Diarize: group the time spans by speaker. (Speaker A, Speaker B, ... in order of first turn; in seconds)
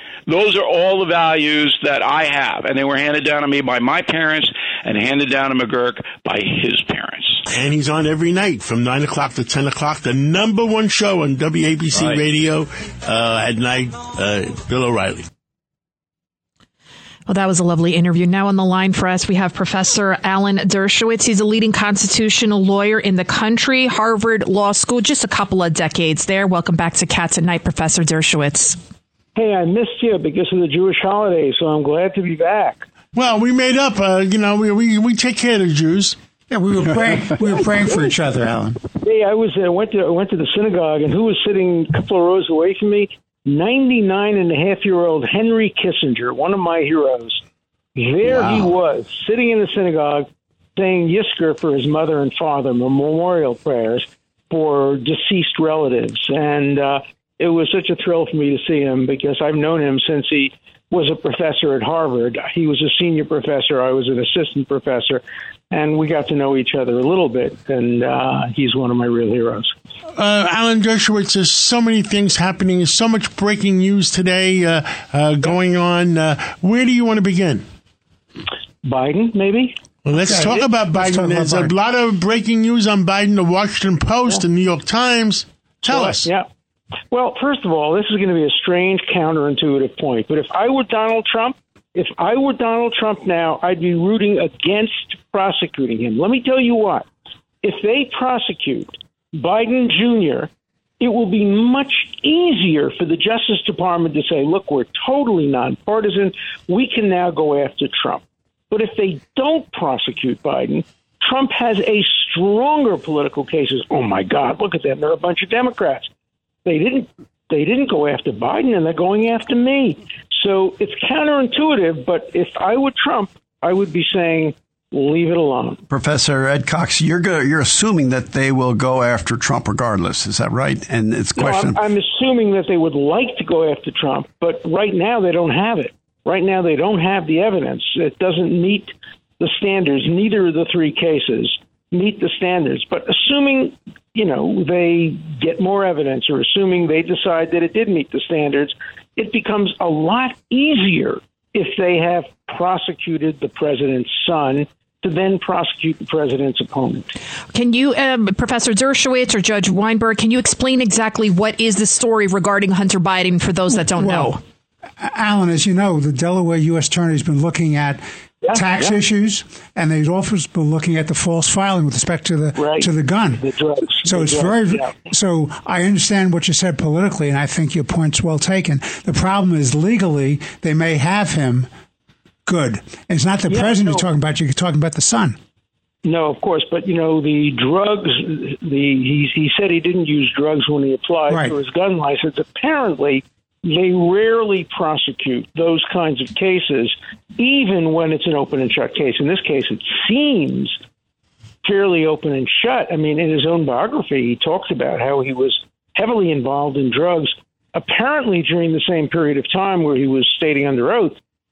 Speaker A: 0.3-7.4
Speaker B: 7.5-15.3, 33.1-36.2, 70.2-77.7, 80.0-86.3
Speaker C: 17.3-28.8, 157.5-164.4
Speaker D: 29.3-32.8, 39.0-47.4, 48.0-69.7, 78.8-79.8, 85.9-86.5, 87.1-97.1, 97.6-116.1, 116.6-125.8, 131.3-157.1, 168.4-168.9, 172.6-175.0, 183.5-184.0, 186.0-200.8, 201.6-211.2
Speaker E: 36.5-38.8, 80.1-81.7, 163.9-164.3, 165.0-173.4, 174.0-181.7, 182.4-185.4, 191.3-191.5
Speaker F: 125.9-131.8